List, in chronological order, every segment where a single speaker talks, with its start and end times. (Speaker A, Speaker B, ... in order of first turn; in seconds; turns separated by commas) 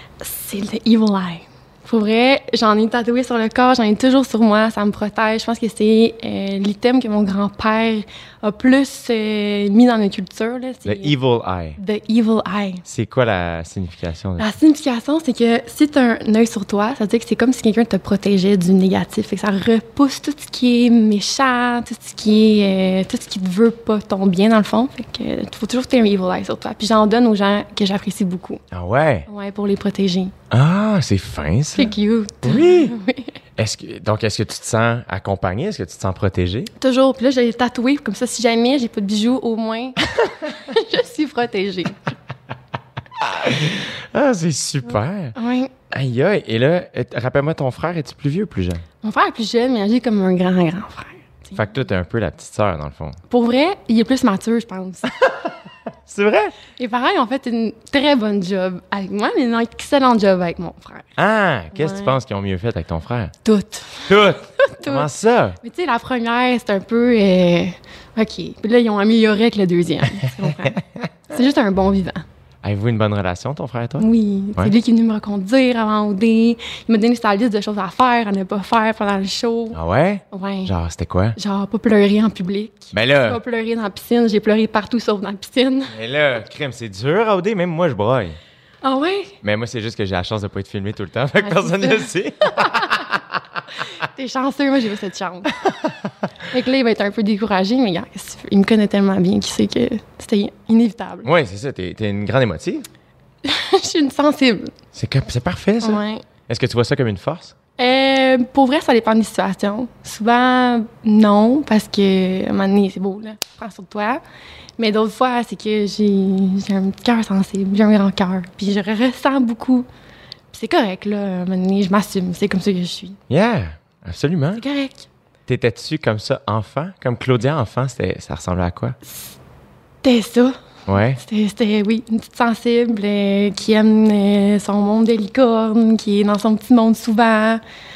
Speaker A: 0.2-11.2, Speaker B: 10.8-11.8, Speaker A: 11.8-12.8, Speaker B: 12.9-14.5, Speaker A: 14.4-28.6, Speaker B: 28.7-29.3, Speaker A: 29.3-30.4, Speaker B: 30.5-33.0, Speaker A: 31.8-33.4, Speaker B: 33.6-36.7, Speaker A: 36.8-42.1, Speaker B: 43.2-45.4, Speaker A: 45.4-45.7, Speaker B: 45.9-48.8, Speaker A: 49.0-51.6, Speaker B: 51.5-53.2, Speaker A: 53.3-55.1, Speaker B: 55.2-55.5, Speaker B: 56.1-56.5, Speaker A: 56.8-61.1, Speaker B: 61.2-63.3, Speaker A: 61.7-62.2, Speaker A: 63.4-72.2, Speaker B: 64.1-65.6, Speaker B: 70.2-71.1, Speaker B: 72.6-74.7, Speaker A: 74.0-79.8, Speaker B: 79.7-81.4, Speaker A: 80.3-80.7, Speaker A: 81.4-85.9, Speaker B: 82.9-83.4, Speaker B: 85.9-88.4, Speaker A: 88.8-89.4, Speaker B: 89.4-93.4, Speaker A: 91.4-93.1, Speaker A: 93.8-95.5, Speaker B: 95.7-96.1, Speaker A: 96.4-101.3, Speaker B: 101.2-102.9, Speaker A: 103.4-104.7, Speaker B: 104.9-107.5, Speaker A: 105.8-106.2, Speaker A: 107.8-114.2, Speaker A: 114.8-119.9, Speaker A: 120.5-123.2, Speaker B: 123.3-124.6, Speaker A: 124.5-125.1, Speaker B: 125.5-129.0, Speaker A: 129.1-129.3, Speaker A: 130.0-130.6, Speaker B: 130.9-131.2, Speaker A: 131.1-137.6